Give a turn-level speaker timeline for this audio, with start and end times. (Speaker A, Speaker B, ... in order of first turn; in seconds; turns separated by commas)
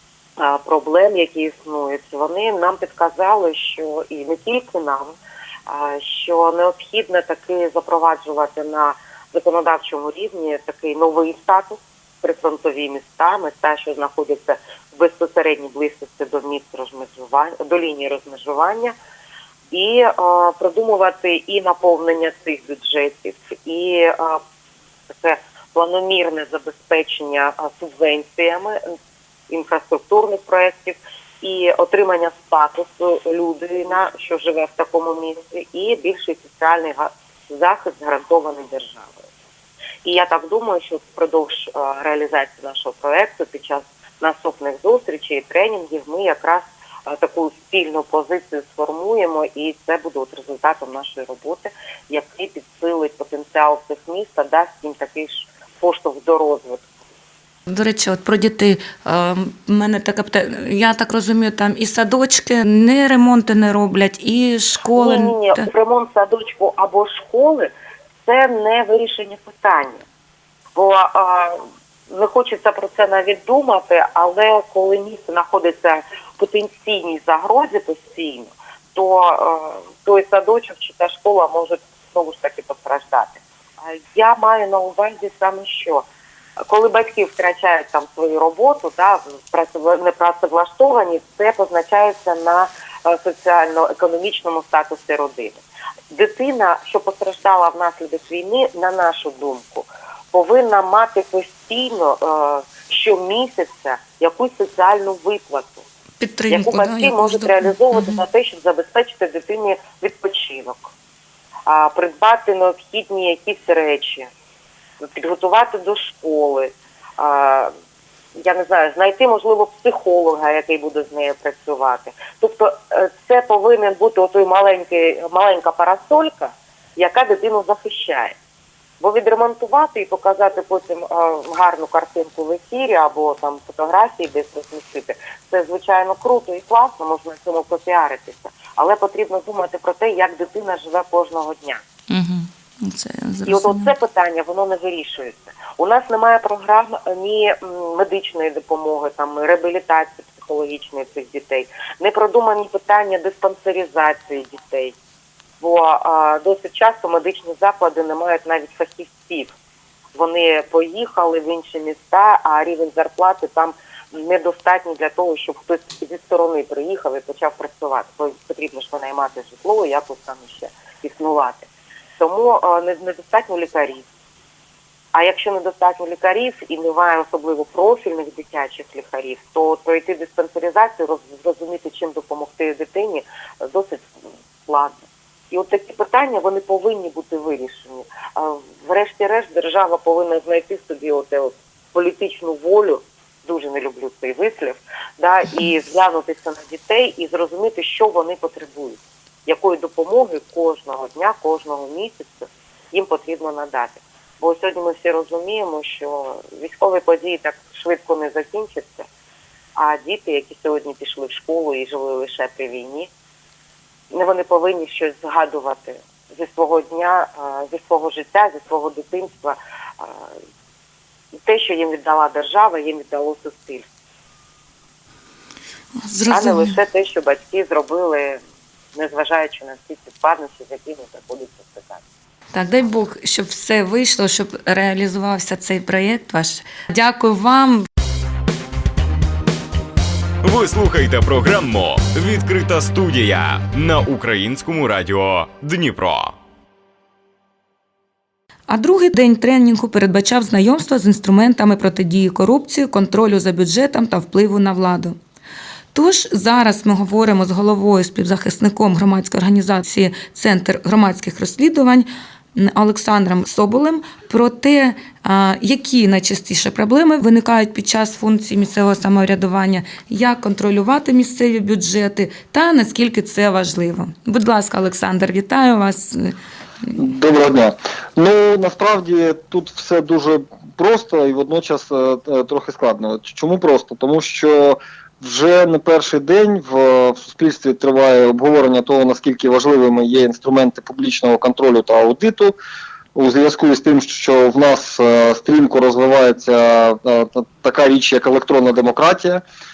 Speaker A: 0.4-5.1, Speaker A: 5.7-18.9, Speaker A: 19.7-24.4, Speaker A: 25.2-28.8, Speaker A: 29.5-39.2, Speaker A: 40.0-56.8, Speaker B: 57.7-65.7, Speaker A: 64.9-67.7, Speaker A: 68.2-70.0, Speaker A: 70.8-86.0, Speaker A: 86.6-105.8, Speaker B: 106.2-108.2, Speaker A: 106.5-110.9, Speaker A: 111.7-114.3, Speaker A: 115.0-117.7, Speaker A: 118.4-128.4, Speaker A: 129.0-141.8, Speaker B: 142.1-143.9, Speaker A: 143.4-154.9, Speaker A: 155.6-159.5, Speaker A: 160.1-171.7, Speaker A: 172.2-174.1, Speaker A: 175.1-184.1, Speaker A: 184.7-184.9, Speaker A: 185.5-209.1, Speaker A: 209.8-213.1, Speaker A: 214.1-220.3, Speaker A: 221.4-223.8, Speaker B: 226.0-226.7, Speaker A: 226.3-228.4, Speaker A: 228.9-232.0, Speaker B: 232.5-237.9, Speaker C: 240.4-246.3, Speaker B: 248.7-255.2, Speaker B: 255.9-277.0, Speaker D: 276.9-292.6, Speaker D: 293.1-299.4